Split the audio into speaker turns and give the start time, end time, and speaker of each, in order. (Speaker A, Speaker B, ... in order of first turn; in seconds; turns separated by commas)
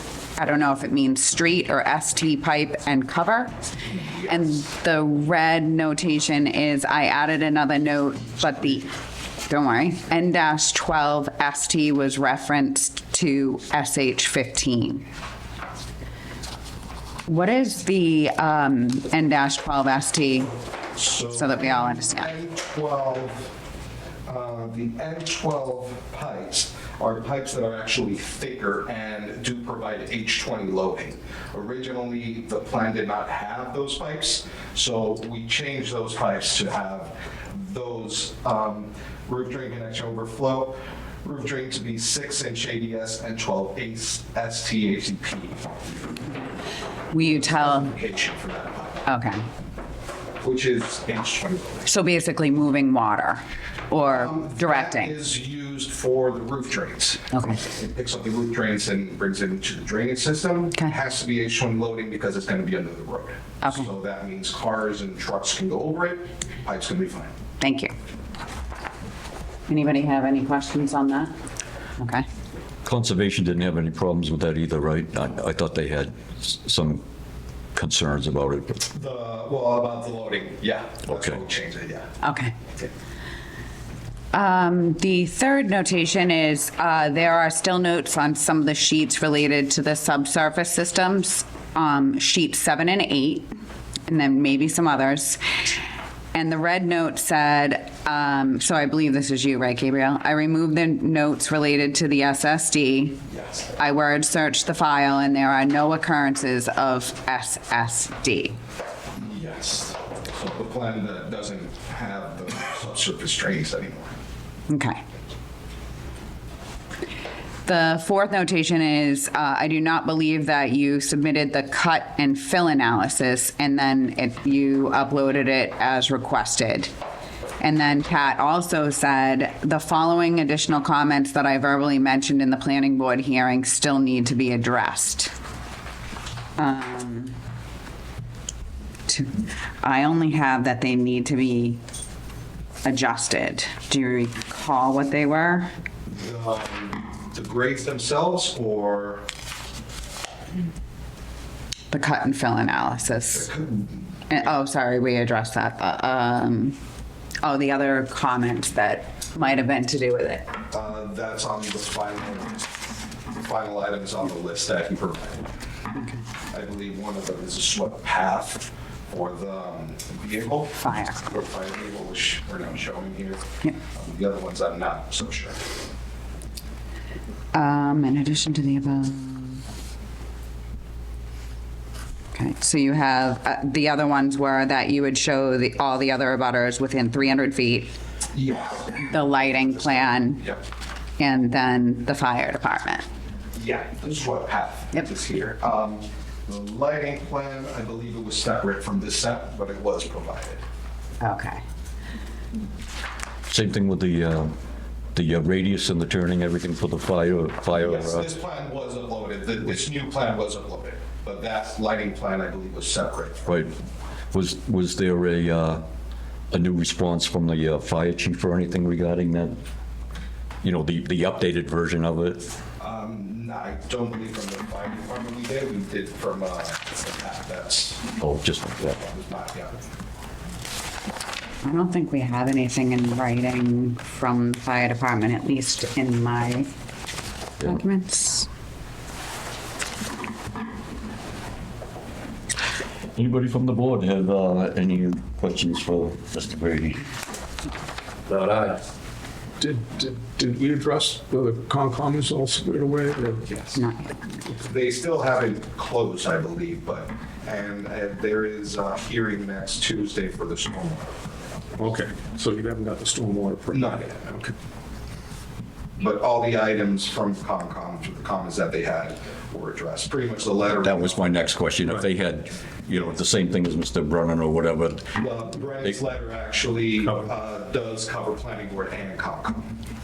Speaker A: 0.4-3.5, Speaker B: 3.9-4.4, Speaker A: 4.3-15.0, Speaker A: 17.3-20.5, Speaker B: 20.9-23.5, Speaker A: 21.3-22.3, Speaker B: 24.3-46.1, Speaker A: 47.1-47.9, Speaker B: 47.2-49.0, Speaker A: 49.0-49.5, Speaker B: 50.4-51.9, Speaker A: 51.9-55.1, Speaker B: 54.1-67.3, Speaker A: 57.3-57.6, Speaker A: 63.6-63.9, Speaker A: 67.6-67.9, Speaker A: 69.7-71.3, Speaker A: 72.0-72.2, Speaker C: 72.8-77.0, Speaker C: 77.8-78.8, Speaker B: 78.9-82.1, Speaker C: 81.1-81.4, Speaker A: 82.2-82.5, Speaker A: 84.3-93.5, Speaker A: 94.1-95.4, Speaker A: 96.3-103.2, Speaker A: 103.8-108.6, Speaker B: 109.1-114.1, Speaker A: 114.7-115.0, Speaker A: 117.6-126.9, Speaker A: 127.6-135.3, Speaker A: 136.6-137.3, Speaker A: 139.1-141.8, Speaker A: 142.8-145.7, Speaker B: 146.1-149.2, Speaker A: 151.9-153.5, Speaker B: 153.3-154.0, Speaker A: 154.3-156.8, Speaker A: 157.4-160.5, Speaker B: 160.7-162.7, Speaker B: 163.3-165.5, Speaker B: 166.5-175.7, Speaker A: 170.8-171.2, Speaker A: 177.5-179.6, Speaker A: 182.3-187.9, Speaker B: 188.3-189.0, Speaker A: 189.0-190.5, Speaker A: 191.2-193.0, Speaker B: 193.5-200.6, Speaker A: 201.2-201.6, Speaker C: 203.5-204.5, Speaker C: 205.1-208.2, Speaker B: 207.7-213.5, Speaker C: 213.4-213.7, Speaker C: 214.3-215.8, Speaker C: 216.5-219.6, Speaker C: 220.6-222.5, Speaker B: 222.8-228.1, Speaker C: 228.2-228.9, Speaker B: 228.9-229.9, Speaker A: 231.6-236.7, Speaker A: 237.6-238.5, Speaker C: 243.1-247.0, Speaker C: 248.3-248.8, Speaker D: 249.6-253.5, Speaker B: 253.5-253.8, Speaker A: 253.7-254.2, Speaker B: 254.6-261.7, Speaker D: 261.8-264.5, Speaker B: 263.7-264.4, Speaker B: 266.0-271.3, Speaker C: 270.8-275.1, Speaker B: 275.1-279.7